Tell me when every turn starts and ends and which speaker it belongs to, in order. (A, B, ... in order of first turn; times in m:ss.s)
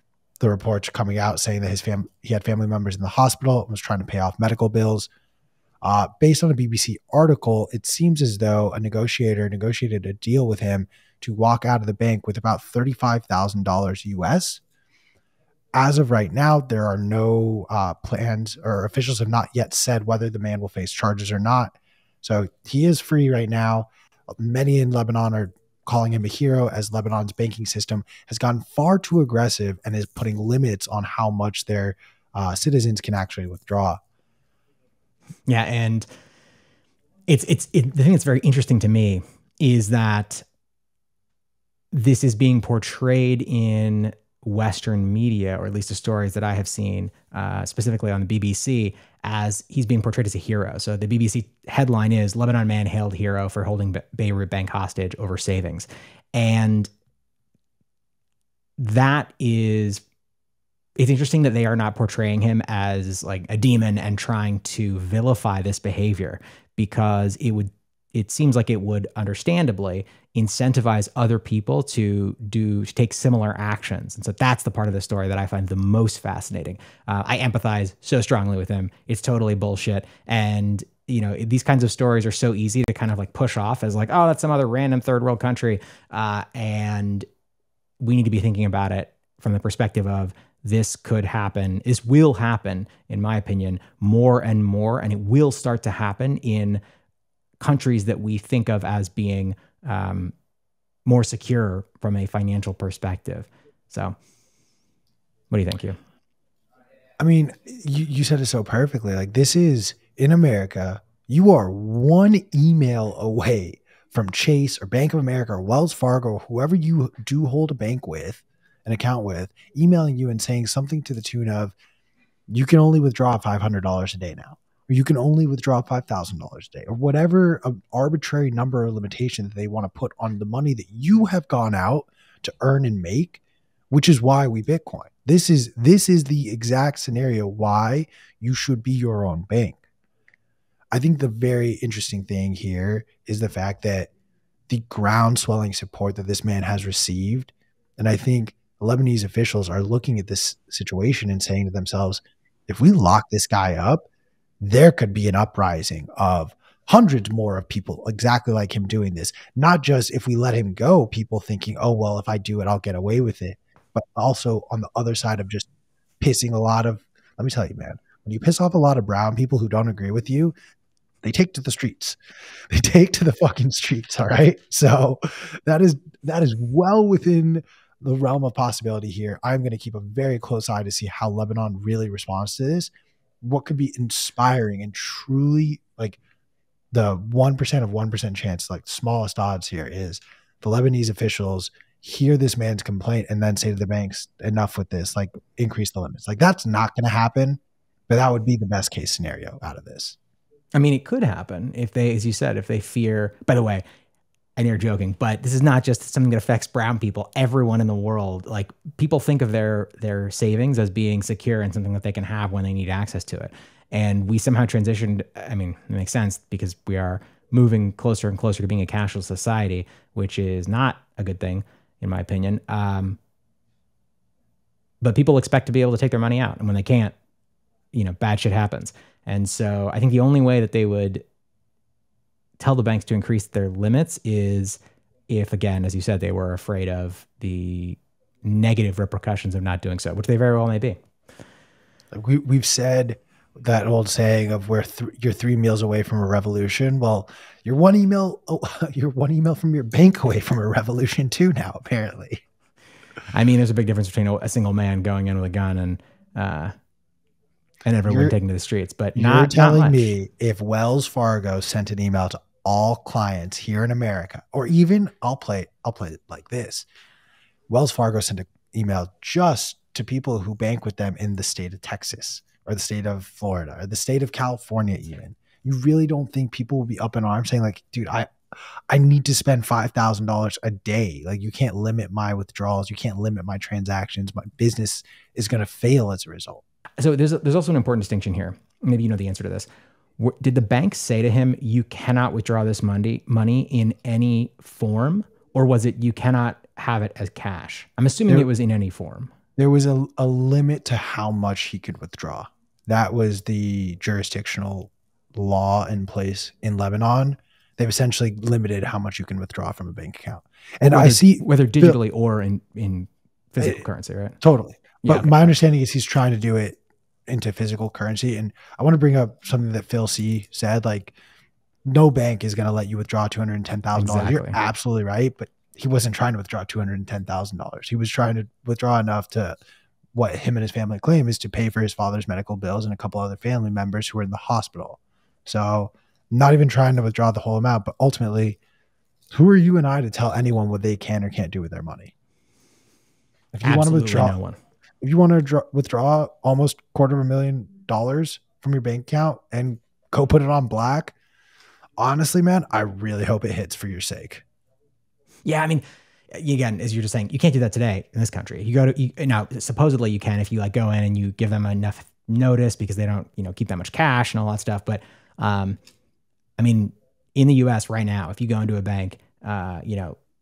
0:00.4-0:05.1 A
0:05.8-0:14.6 A
0:15.8-0:23.9 A
0:24.4-0:34.0 A
0:35.5-0:36.1 B
0:37.3-0:40.4 B
0:41.9-0:56.9 B
0:58.8-1:00.0 B
1:01.0-1:27.3 B
1:28.0-1:36.8 B
1:37.6-1:40.3 B
1:41.1-1:44.2 B
1:45.5-1:46.0 B
1:47.2-2:01.8 A
2:02.5-2:19.8 A
2:20.9-2:24.1 A
2:24.7-2:34.0 A
2:34.6-2:45.7 A
2:46.2-2:50.6 A
2:51.2-2:52.2 A
2:52.7-3:02.9 A
3:03.4-3:06.2 A
3:06.9-3:20.2 A
3:20.8-3:23.8 B
3:24.6-3:43.2 B
3:45.0-3:47.2 B
3:47.9-3:51.3 B
3:52.6-4:01.0 B
4:02.1-4:12.4 A
4:13.3-4:16.7 B
4:17.8-4:20.1 B
4:18.1-4:18.4 A
4:19.2-4:26.9 A
4:27.7-4:38.3 A
4:38.9-4:46.6 A
4:47.0-4:49.7 B
4:50.2-4:59.3 B
4:59.6-5:12.0 A
5:10.9-5:14.4 B
5:14.4-5:21.2 A
5:15.0-5:15.5 B
5:21.8-5:29.6 A
5:24.0-5:24.6 B
5:30.2-5:38.6 A
5:39.3-5:42.1 A
5:43.5-5:44.4 A
5:43.6-5:44.6 B
5:45.0-5:51.2 A
5:52.0-5:54.4 A
5:55.4-5:55.8 B
5:56.3-6:05.8 B
6:06.6-6:10.2 B